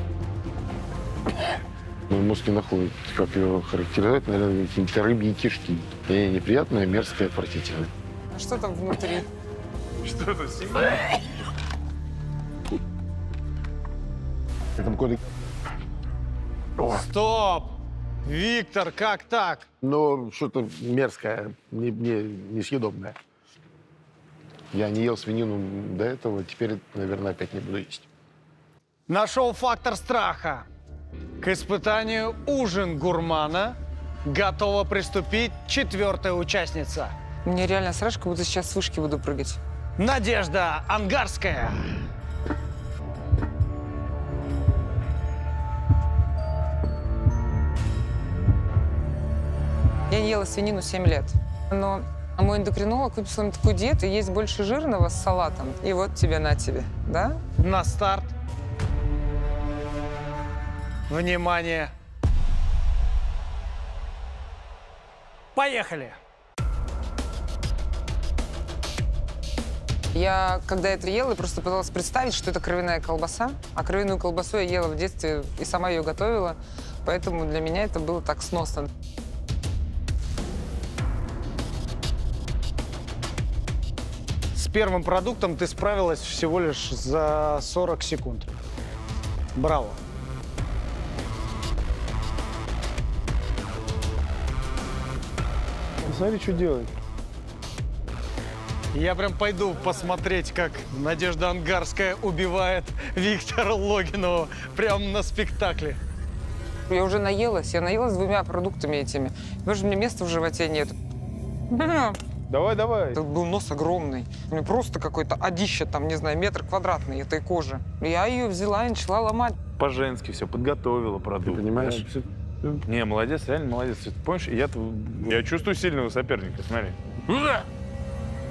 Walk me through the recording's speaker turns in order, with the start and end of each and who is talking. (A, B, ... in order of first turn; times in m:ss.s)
0:02.1-0:07.9 A
0:08.3-0:09.3 B
0:10.0-0:11.0 C
0:14.8-0:15.2 A
0:16.9-0:19.7 D
0:19.8-0:23.2 A
0:24.7-0:28.1 A
0:29.1-0:30.6 D
0:31.4-0:37.1 D
0:37.4-0:39.6 B
0:40.0-0:41.8 D
0:50.1-0:57.4 B
0:57.6-0:58.3 D
1:01.1-1:01.9 D
1:05.5-1:06.2 D
1:10.1-1:18.9 B
1:24.5-1:28.5 D
1:29.5-1:30.0 D
1:36.0-1:36.9 C
1:38.9-1:46.0 D
1:46.9-1:50.9 B
1:51.7-1:52.2 B
1:52.5-1:53.2 C
1:53.1-1:59.6 B
1:59.8-2:07.6 C
2:01.4-2:02.1 A